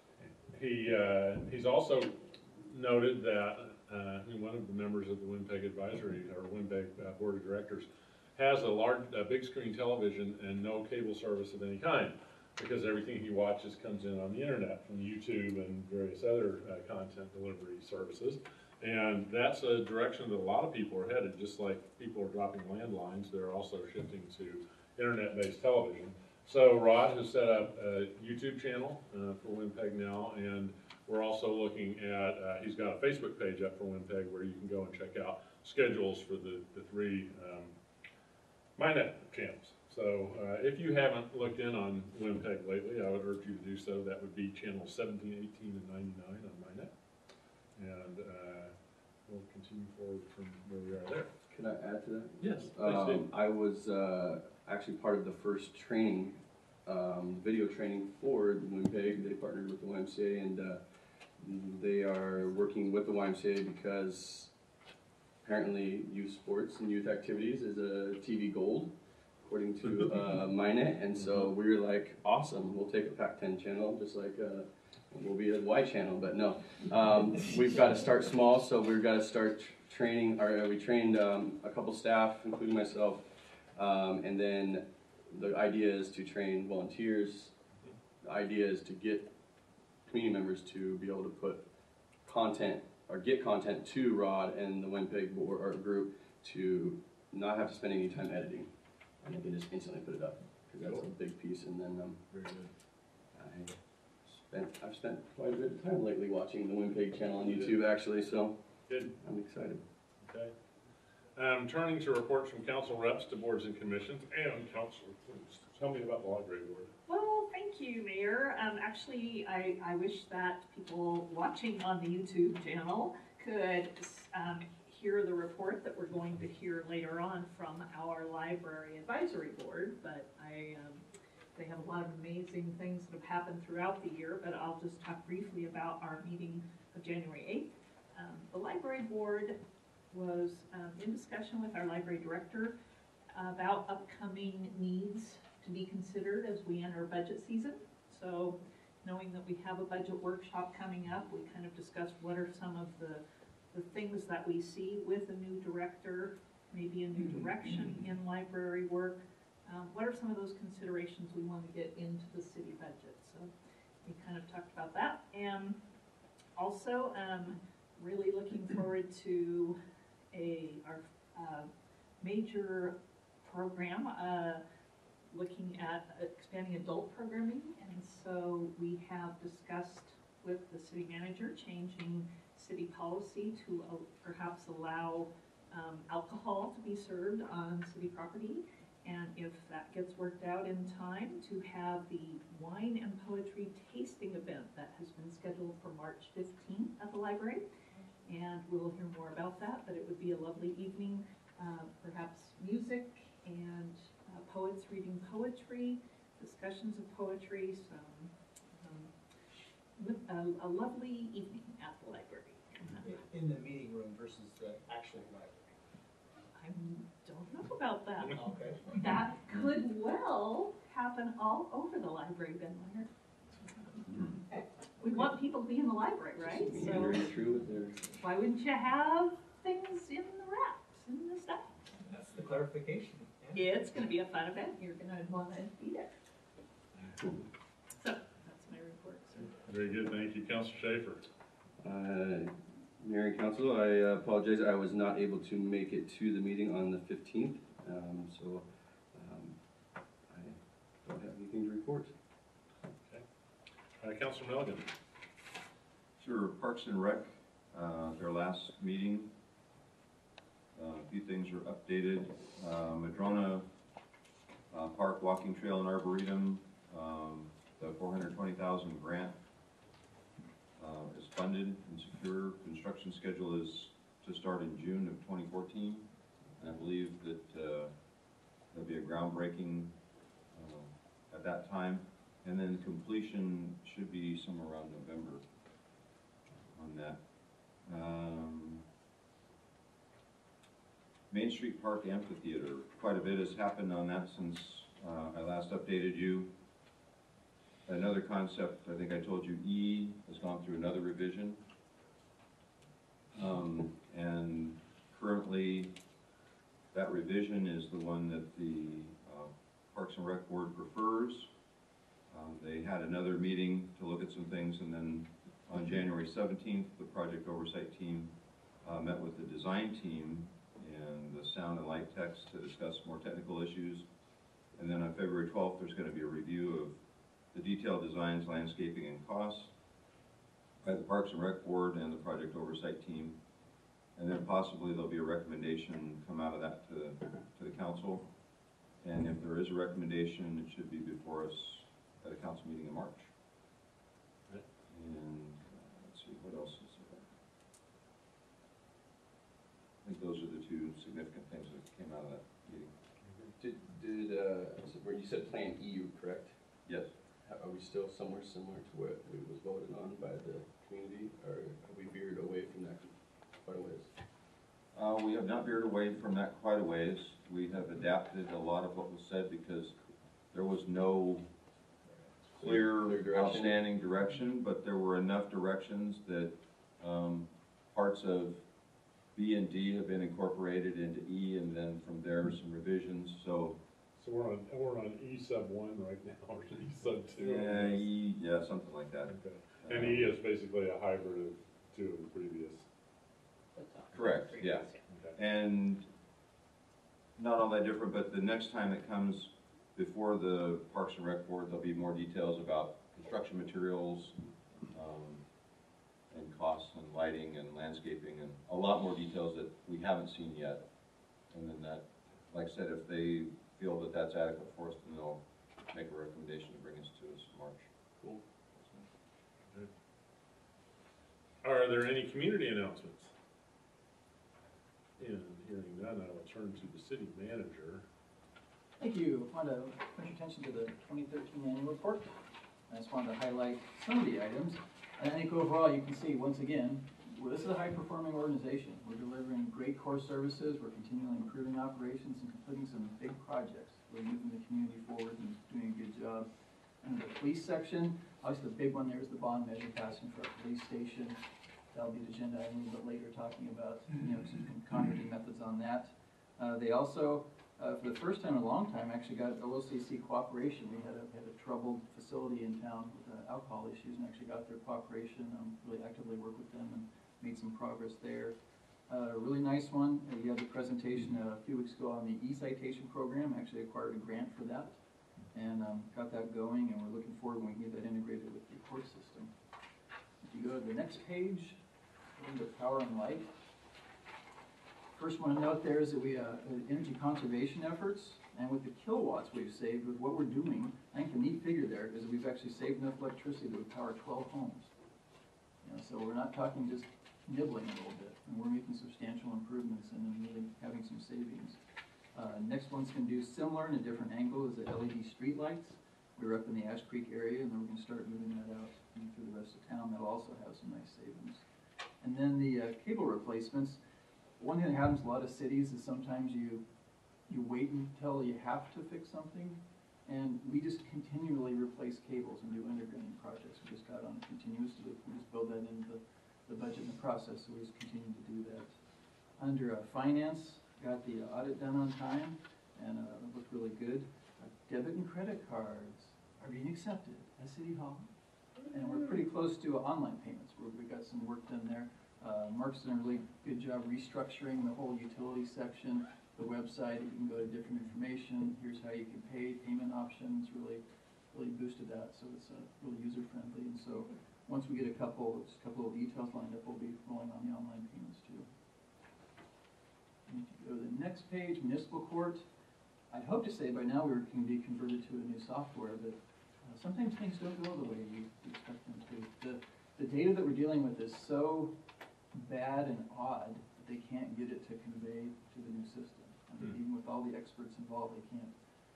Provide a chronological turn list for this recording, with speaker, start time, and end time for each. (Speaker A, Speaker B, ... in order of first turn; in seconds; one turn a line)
Speaker A: 0.5-37.7
Speaker A: 38.8-46.9
Speaker A: 47.8-48.7
Speaker A: 49.2-51.3
Speaker B: 51.5-60.8
Speaker A: 52.4-53.3
Speaker B: 61.4-64.5
Speaker B: 65.4-87.5
Speaker A: 71.1-71.5
Speaker B: 88.2-89.3
Speaker B: 90.0-91.6
Speaker B: 92.2-98.7
Speaker B: 99.2-102.2
Speaker A: 100.8-101.1
Speaker A: 102.3-102.7
Speaker B: 103.3-108.6
Speaker A: 107.5-107.7
Speaker B: 109.1-109.8
Speaker A: 110.2-110.5
Speaker A: 111.3-116.9
Speaker C: 117.1-139.6
Speaker C: 140.1-142.7
Speaker C: 143.3-163.5
Speaker C: 164.0-165.8
Speaker C: 166.6-169.8
Speaker C: 170.3-171.7
Speaker C: 172.2-174.6
Speaker C: 175.3-197.7
Speaker C: 198.2-209.1
Speaker C: 209.9-213.2
Speaker D: 213.0-215.7
Speaker C: 216.6-218.4
Speaker D: 218.3-219.0
Speaker C: 218.9-223.1
Speaker C: 225.0-227.2
Speaker B: 226.4-228.1
Speaker C: 228.2-231.8
Speaker D: 232.0-233.7
Speaker C: 233.5-236.1
Speaker C: 238.0-239.5
Speaker A: 239.6-241.2
Speaker B: 241.8-249.6
Speaker B: 250.3-252.1
Speaker A: 254.0-254.9
Speaker E: 256.2-259.3
Speaker E: 260.7-263.6
Speaker E: 264.7-269.4
Speaker E: 270.8-277.9
Speaker E: 278.7-279.9
Speaker E: 280.5-285.4
Speaker E: 286.7-287.2
Speaker E: 287.9-288.8
Speaker E: 291.3-296.5
Speaker E: 297.9-301.6
Speaker E: 303.3-305.9
Speaker E: 306.9-311.5
Speaker E: 312.3-324.1
Speaker E: 324.7-327.0
Speaker E: 327.5-329.7
Speaker E: 330.8-333.4
Speaker E: 334.1-338.3
Speaker E: 339.0-343.3
Speaker E: 344.9-347.3
Speaker E: 350.0-352.9
Speaker A: 353.2-353.5
Speaker B: 353.6-356.6
Speaker B: 357.4-364.1
Speaker E: 364.9-369.9
Speaker E: 370.5-371.4
Speaker B: 372.6-373.8
Speaker E: 372.6-378.6
Speaker E: 379.3-383.8
Speaker A: 384.2-388.1
Speaker E: 387.4-390.3
Speaker A: 389.3-392.9
Speaker C: 393.7-395.0
Speaker E: 394.1-396.1
Speaker A: 395.1-395.3
Speaker E: 397.4-405.4
Speaker E: 406.3-410.8
Speaker E: 411.5-417.9
Speaker A: 421.6-423.3
Speaker A: 425.2-428.0
Speaker F: 429.0-432.3
Speaker F: 432.9-446.5
Speaker F: 447.0-451.4
Speaker F: 451.9-468.5
Speaker F: 469.1-475.0
Speaker F: 475.5-479.5
Speaker F: 480.4-481.8
Speaker F: 482.4-483.5
Speaker F: 485.1-494.9
Speaker F: 495.8-501.8
Speaker F: 502.3-511.6
Speaker F: 512.2-514.0
Speaker F: 514.6-516.8
Speaker F: 517.5-528.9
Speaker F: 529.6-538.3
Speaker F: 538.9-558.6
Speaker F: 560.5-562.6
Speaker F: 563.3-571.9
Speaker F: 572.5-578.7